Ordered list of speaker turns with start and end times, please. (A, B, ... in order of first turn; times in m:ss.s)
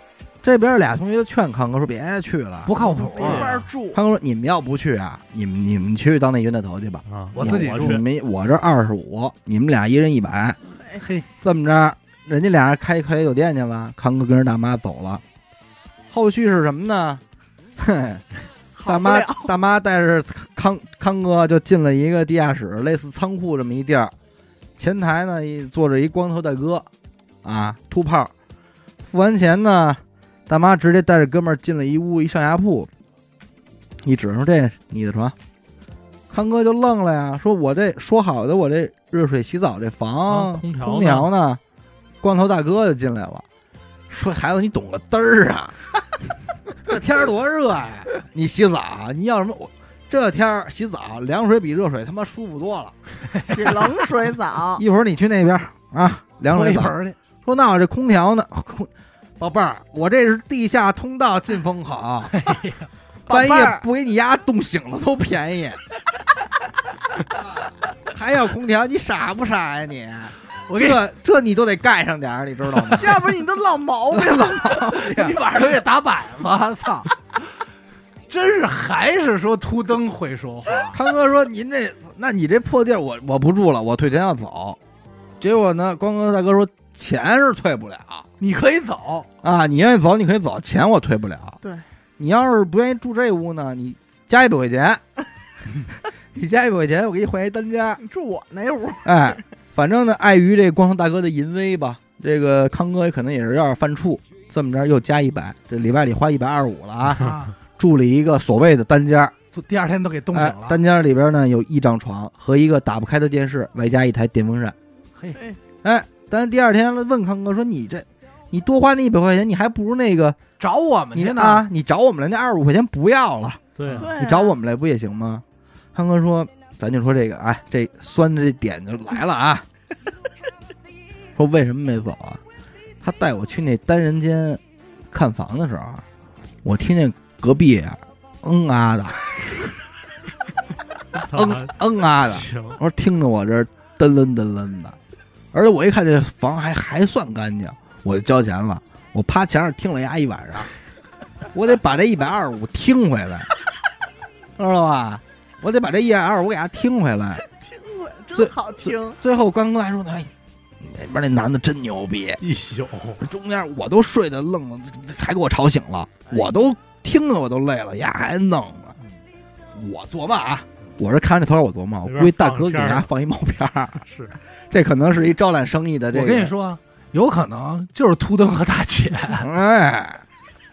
0:00.4-0:02.8 A
0:02.6-0:03.5 B
0:02.8-0:04.0 C
0:03.2-0:03.6 D
0:03.9-0:10.6 A
0:07.1-0:08.0 D
0:07.3-0:08.0 B
0:11.0-0:11.3 B
0:11.4-0:15.2 A
0:16.1-0:17.2 A
0:17.8-0:18.2 A
0:18.8-0:19.5 C
0:18.9-0:24.1 A
0:24.8-0:26.9 A
0:27.4-0:28.3 A
0:29.0-0:32.9 A
0:34.0-0:35.4 A
0:36.3-0:41.6 A
0:40.3-0:41.3 D
0:42.2-0:43.4 A
0:44.1-0:45.8 A
0:46.8-0:52.9 A
0:53.3-0:53.9 B
0:53.4-0:54.8 C
0:54.8-1:02.4 A
0:56.5-0:57.2 B
1:02.3-1:02.9 B
1:03.3-1:03.8 C
1:03.3-1:05.8 A
1:08.1-1:13.2 A
1:10.7-1:11.0 B
1:12.9-1:15.0 C
1:14.1-1:15.4 A
1:15.0-1:17.4 B
1:18.3-1:21.0 B
1:20.9-1:24.8 A
1:25.4-1:28.3 A
1:28.4-1:29.3 B
1:29.4-1:31.6 A
1:32.2-1:35.0 A
1:36.3-1:38.0 A
1:38.0-1:39.4 C
1:39.0-1:49.4 A
1:47.1-1:47.5 B
1:49.5-1:50.8 B
1:50.3-1:54.8 A
1:55.8-2:00.4 A
2:00.6-2:01.6 B
2:01.1-2:03.6 A
2:03.8-2:04.1 D
2:03.8-2:04.1 B
2:04.0-2:04.6 C
2:04.1-2:09.6 A
2:11.4-2:12.4 A
2:13.0-2:16.0 A
2:16.6-2:19.7 A
2:21.2-2:25.0 A
2:21.2-2:22.8 D
2:25.5-2:30.7 A
2:31.5-2:33.5 A
2:34.6-2:37.4 A
2:37.4-2:39.2 C
2:38.3-2:42.4 A
2:42.4-2:43.2 D
2:43.2-2:49.0 A
2:46.3-2:46.6 C
2:49.7-2:54.0 A
2:52.1-2:53.1 D
2:54.1-2:54.4 D
2:54.7-2:56.5 A
2:56.1-2:59.5 B
2:59.4-3:00.2 A